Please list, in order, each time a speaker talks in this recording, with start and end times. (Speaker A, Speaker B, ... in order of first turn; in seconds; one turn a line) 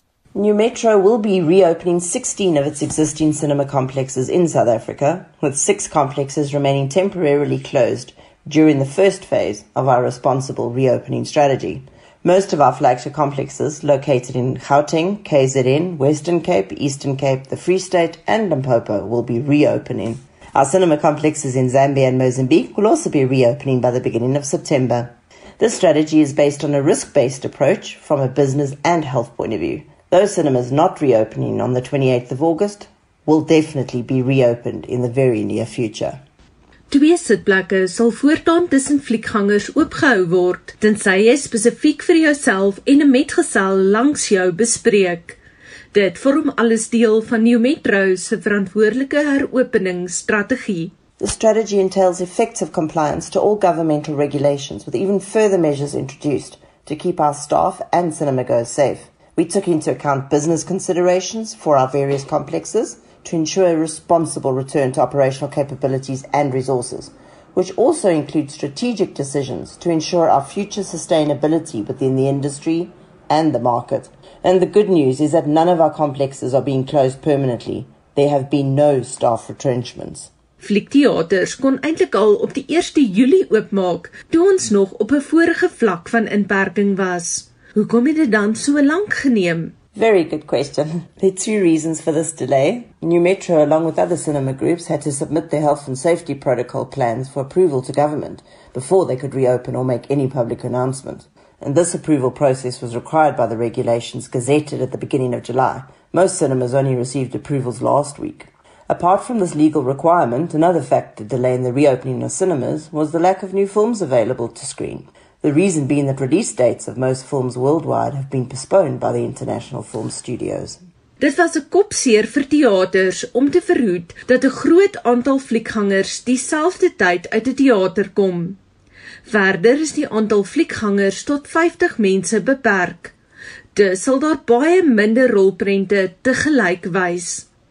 Speaker A: 0.3-36.2
Speaker B: 36.9-45.4
Speaker B: 45.9-50.9
Speaker A: 51.2-80.3
Speaker B: 80.6-89.7
Speaker A: 89.9-120.8
Speaker B: 121.2-128.6
Speaker B: 129.2-133.1
Speaker B: 133.7-137.5